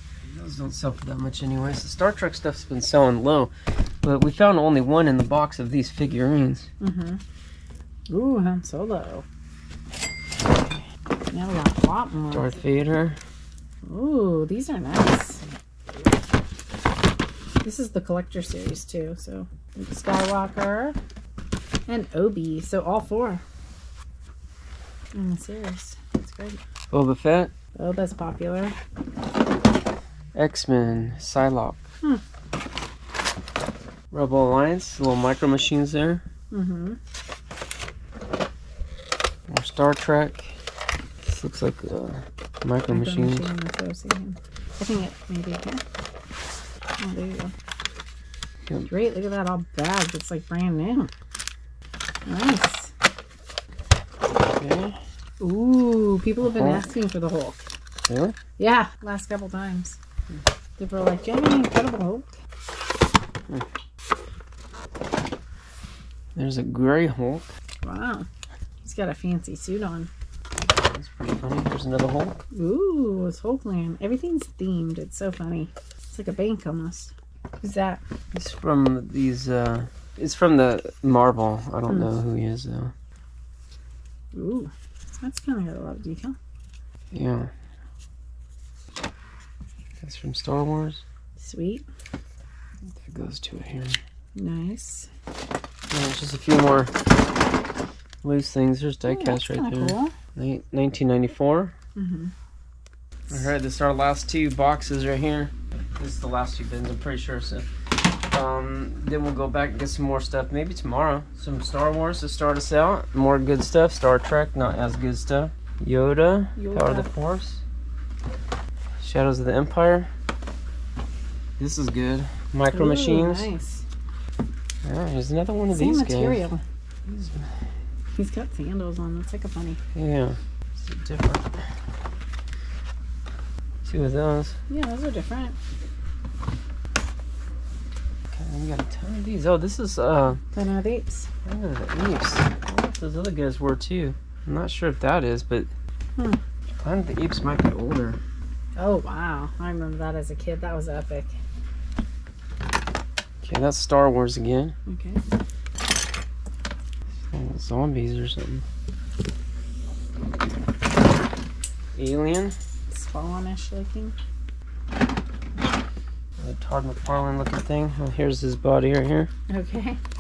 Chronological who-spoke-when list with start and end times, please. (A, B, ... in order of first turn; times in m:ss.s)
0:00.2-0:06.7 A
0:06.8-0:07.2 B
0:08.1-0:09.2 B
0:10.4-0:10.8 A
0:11.3-0:12.6 B
0:12.3-0:13.2 A
0:13.8-0:15.4 B
0:17.6-0:21.0 B
0:21.9-0:23.4 B
0:25.1-0:26.6 B
0:26.9-0:27.5 A
0:27.8-0:28.8 B
0:30.4-0:31.8 A
0:34.1-0:36.2 A
0:36.5-0:37.0 B
0:39.5-0:40.6 A
0:41.2-0:43.5 A
0:42.9-0:45.8 B
0:47.0-0:47.5 B
0:48.9-0:51.1 B
0:52.2-0:52.9 B
0:54.6-0:55.0 A
0:55.4-0:57.7 B
0:56.4-0:56.9 A
0:58.1-0:58.4 A
0:58.6-1:00.0 B
1:00.8-1:02.4 B
1:06.4-1:07.5 A
1:07.8-1:08.3 B
1:08.8-1:10.1 B
1:10.6-1:12.4 A
1:12.5-1:18.0 B
1:18.3-1:22.9 A
1:24.3-1:26.4 B
1:27.1-1:27.5 A
1:30.0-1:31.0 A
1:31.4-1:31.8 B
1:33.0-1:34.0 A
1:34.4-1:35.1 B
1:35.9-1:36.9 A
1:38.2-1:41.8 A
1:39.1-1:40.2 B
1:42.0-1:42.3 B
1:43.3-1:47.7 A
1:48.2-1:57.6 A
1:56.6-1:57.1 B
1:59.0-2:00.1 A
2:01.6-2:03.5 A
2:02.7-2:03.8 B
2:04.8-2:06.5 A
2:05.7-2:06.6 B
2:07.0-2:07.5 A
2:08.1-2:09.8 B
2:09.9-2:11.6 A
2:13.8-2:14.6 A
2:14.7-2:15.6 B
2:18.3-2:20.4 A
2:20.5-2:21.3 B
2:21.4-2:25.7 A
2:26.2-2:26.4 B
2:26.8-2:28.2 A
2:28.8-2:31.4 B
2:33.4-2:34.8 A
2:34.9-2:35.2 B
2:37.3-2:38.6 A
2:42.0-2:42.6 A
2:42.9-2:44.2 B
2:46.4-2:49.3 A
2:49.5-2:50.0 B